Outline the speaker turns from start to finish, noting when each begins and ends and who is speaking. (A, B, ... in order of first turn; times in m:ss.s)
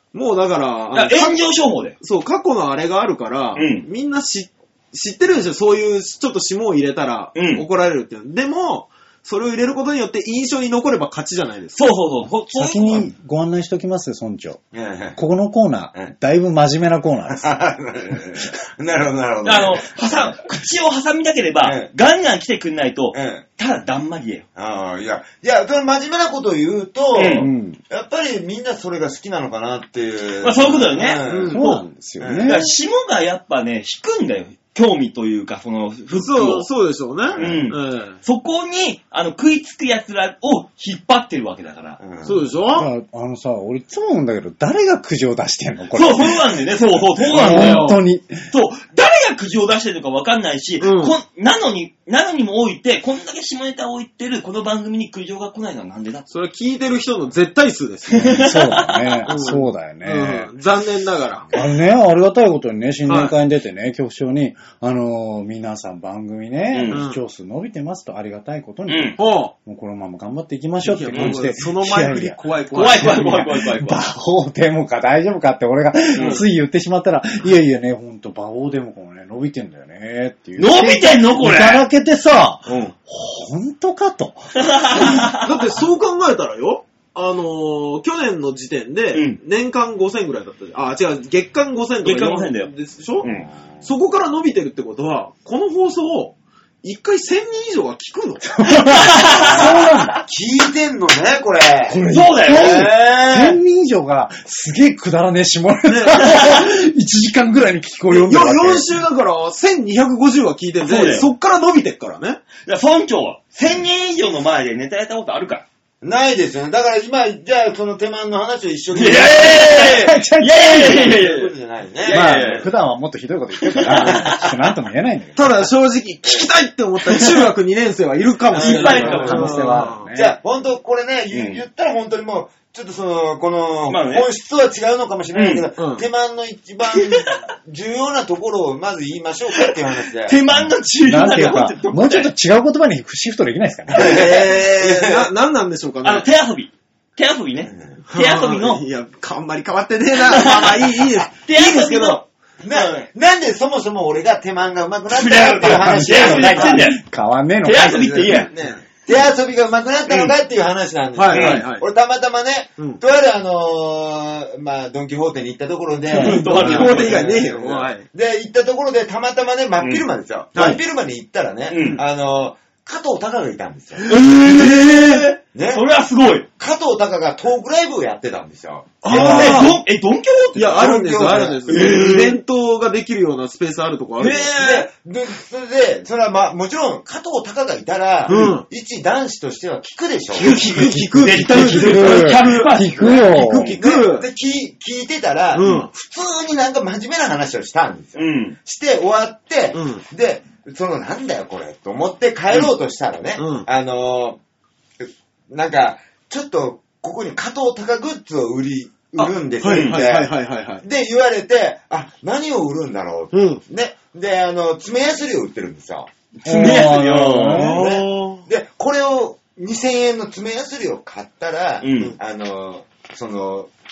0:00.1-0:01.4 A
0:00.9-0:02.0 B
0:02.0-0:11.8 A
0:03.5-0:03.9 B
0:07.4-0:07.6 B
0:11.8-0:13.1 B
0:12.5-0:14.6 C
0:14.7-0:15.2 D
0:15.2-0:17.5 C
0:17.3-0:19.9 D
0:19.4-0:24.5 B
0:21.6-0:21.9 D
0:23.1-0:23.4 D
0:24.6-0:31.6 D
0:27.2-0:27.5 B
0:27.3-0:27.8 C
0:30.4-0:31.8 B
0:31.2-0:31.6 A
0:31.4-0:32.7 C
0:32.2-0:32.6 D
0:32.4-0:36.7 B
0:36.1-0:38.2 A
0:37.3-0:37.6 D
0:37.4-0:42.0 B
0:42.0-0:42.5 D
0:42.2-0:42.9 A
0:42.7-0:46.4 C
0:45.9-0:48.0 B
0:47.2-0:48.0 A
0:47.3-0:48.5 C
0:48.5-0:56.3 B
0:50.8-0:51.2 A
0:56.3-0:58.6 A
0:58.1-0:59.3 B
0:58.3-1:00.5 C
0:59.3-1:01.5 A
1:01.5-1:25.1 C
1:03.0-1:03.4 A
1:06.7-1:07.0 B
1:06.9-1:07.2 A
1:08.9-1:09.2 B
1:09.2-1:09.5 A
1:10.8-1:13.5 A
1:11.1-1:11.4 B
1:12.7-1:14.1 B
1:16.1-1:16.4 B
1:16.1-1:16.5 A
1:20.6-1:21.8 B
1:24.6-1:25.4 B
1:24.9-1:33.3 A
1:29.1-1:29.4 B
1:32.0-1:33.5 B
1:33.8-1:38.5 A
1:38.4-1:40.2 C
1:38.8-1:40.2 B
1:39.3-1:39.8 A
1:39.4-1:42.0 D
1:41.9-1:49.0 C
1:42.1-1:42.9 B
1:42.5-1:43.6 A
1:45.9-1:46.2 A
1:46.2-1:46.6 B
1:48.1-1:52.4 A
1:50.8-1:51.3 B
1:52.6-1:55.7 B
1:56.0-2:00.0 D
1:59.0-2:01.5 B
1:59.4-2:01.2 C
2:00.7-2:02.3 D
2:02.1-2:02.7 B
2:02.1-2:05.7 C
2:03.6-2:04.4 B
2:05.4-2:10.1 A
2:08.5-2:09.4 D
2:08.5-2:09.6 B
2:08.8-2:10.4 C
2:10.1-2:20.4 D
2:11.3-2:11.6 B
2:13.9-2:14.3 B
2:15.3-2:15.7 B
2:15.8-2:16.1 A
2:19.6-2:22.3 B
2:21.0-2:24.3 C
2:23.9-2:25.3 D
2:23.9-2:26.3 A
2:26.0-2:28.8 B
2:27.7-2:28.0 D
2:28.1-2:32.2 A
2:30.3-2:33.1 B
2:32.6-2:36.9 D
2:35.1-2:37.0 B
2:35.6-2:38.5 C
2:37.6-2:38.6 B
2:38.3-2:38.8 A
2:39.0-2:54.2 D
2:40.1-2:40.4 B
2:41.1-2:41.9 A
2:41.3-2:41.6 B
2:46.1-2:48.1 A
2:46.1-2:47.3 B
2:49.8-2:50.0 B
2:50.5-2:50.8 A
2:51.7-2:52.0 B
2:54.1-2:56.5 B
2:54.4-2:55.2 A
2:55.5-2:55.8 D
2:56.6-2:59.7 D
2:59.0-2:59.8 A
2:59.1-3:00.8 B
3:00.6-3:04.9 A
3:00.7-3:01.9 D
3:01.7-3:02.4 B
3:04.2-3:04.5 B
3:04.4-3:10.7 D
3:08.3-3:08.6 A
3:10.3-3:13.2 B
3:10.4-3:14.3 A
3:10.7-3:13.8 C
3:13.7-3:24.4 D
3:15.5-3:15.9 A
3:18.2-3:18.6 B
3:19.7-3:20.0 A
3:23.4-3:23.7 A
3:25.0-3:36.1 D
3:29.2-3:30.8 A
3:29.7-3:30.0 B
3:33.3-3:33.6 A
3:36.4-3:37.7 B
3:36.4-3:37.8 C
3:37.5-3:38.4 A
3:37.7-3:43.7 D
3:41.8-3:42.2 B